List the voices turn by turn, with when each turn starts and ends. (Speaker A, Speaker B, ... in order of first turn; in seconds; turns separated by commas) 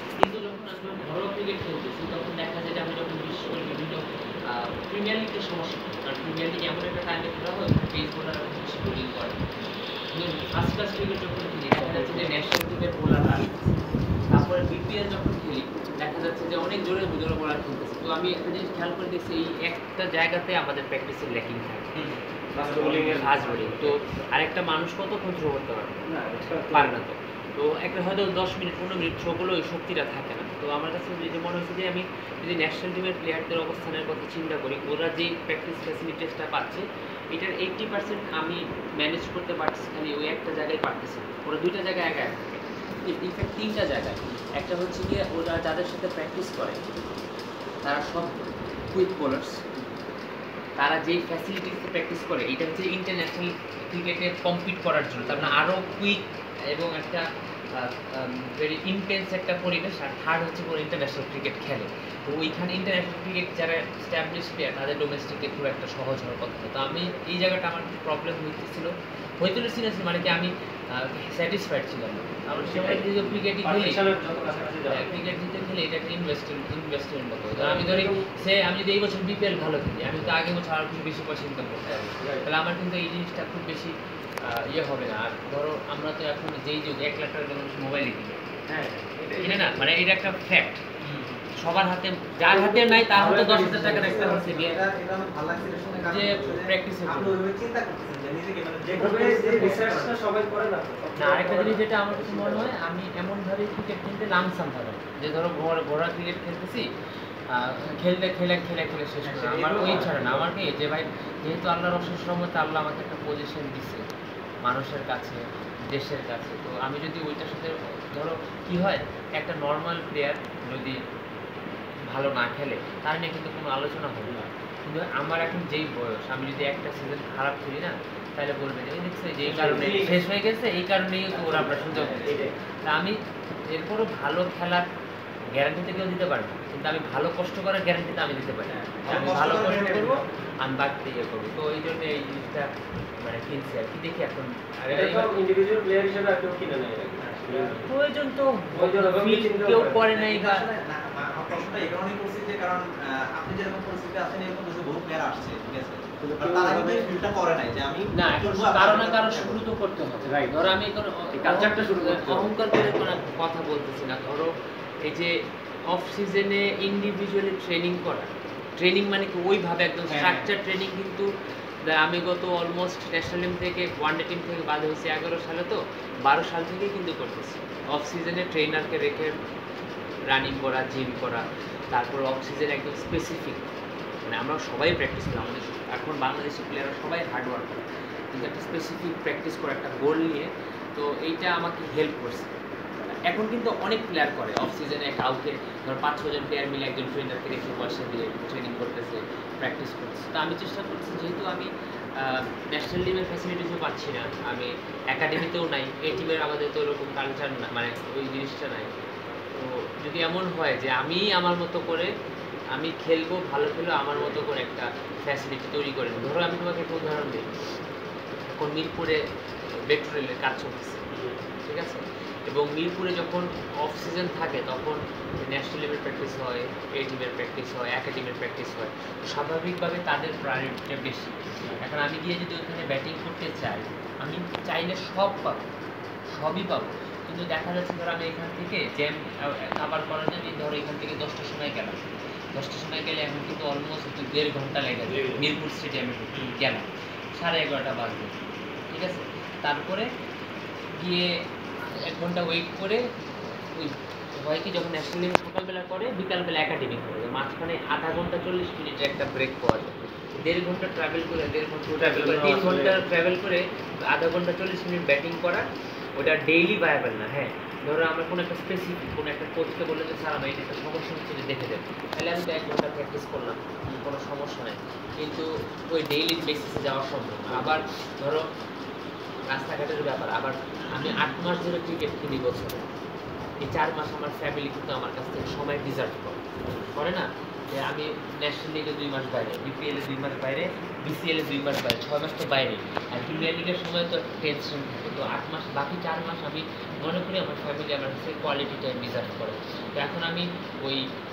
Speaker A: 0.2-9.4, Speaker A: 10.1-13.7, Speaker B: 11.8-12.4, Speaker A: 14.3-21.9, Speaker C: 21.9-23.6, Speaker B: 22.5-24.0, Speaker A: 23.1-26.0, Speaker B: 26.1-26.9, Speaker A: 26.7-42.4, Speaker A: 43.0-46.8, Speaker A: 47.8-48.4, Speaker A: 48.9-49.6, Speaker A: 50.8-56.2, Speaker A: 56.7-57.2, Speaker A: 57.8-68.9, Speaker A: 69.4-88.4, Speaker B: 72.5-75.1, Speaker B: 77.5-78.2, Speaker B: 81.9-82.5, Speaker B: 88.7-89.9, Speaker A: 89.4-90.8, Speaker C: 91.0-91.4, Speaker A: 91.6-94.8, Speaker B: 92.5-94.4, Speaker C: 93.1-100.2, Speaker A: 96.0-97.3, Speaker B: 98.8-102.7, Speaker A: 101.2-106.8, Speaker A: 107.5-114.0, Speaker C: 109.2-110.4, Speaker B: 109.8-110.4, Speaker A: 114.6-121.0, Speaker A: 122.1-132.3, Speaker B: 129.4-130.0, Speaker C: 129.7-130.2, Speaker B: 131.3-132.5, Speaker C: 131.4-132.3, Speaker A: 132.8-133.2, Speaker A: 133.7-134.8, Speaker A: 135.5-142.7, Speaker C: 138.7-140.2, Speaker A: 143.2-145.4, Speaker B: 144.9-147.9, Speaker A: 147.8-150.6, Speaker B: 148.7-150.1, Speaker C: 150.1-159.6, Speaker B: 156.2-157.1, Speaker A: 158.1-164.5, Speaker B: 160.2-160.7, Speaker B: 161.3-162.9, Speaker A: 165.0-165.3, Speaker A: 165.9-171.3, Speaker C: 170.1-170.5, Speaker A: 171.9-179.3, Speaker A: 180.3-183.6, Speaker A: 184.3-192.5, Speaker A: 193.1-208.9, Speaker A: 209.5-212.1, Speaker A: 212.7-217.4, Speaker B: 214.1-214.4, Speaker A: 218.4-219.2, Speaker A: 219.9-221.0, Speaker B: 221.1-221.4, Speaker A: 221.7-235.6, Speaker A: 236.3-242.0, Speaker A: 242.5-248.3, Speaker B: 245.1-245.5, Speaker A: 248.9-250.1, Speaker A: 251.0-251.3, Speaker A: 252.0-253.0, Speaker A: 253.7-265.6, Speaker B: 262.0-263.0, Speaker A: 266.2-278.4, Speaker B: 277.5-277.8, Speaker A: 279.4-282.9, Speaker A: 283.6-286.4, Speaker A: 286.9-301.0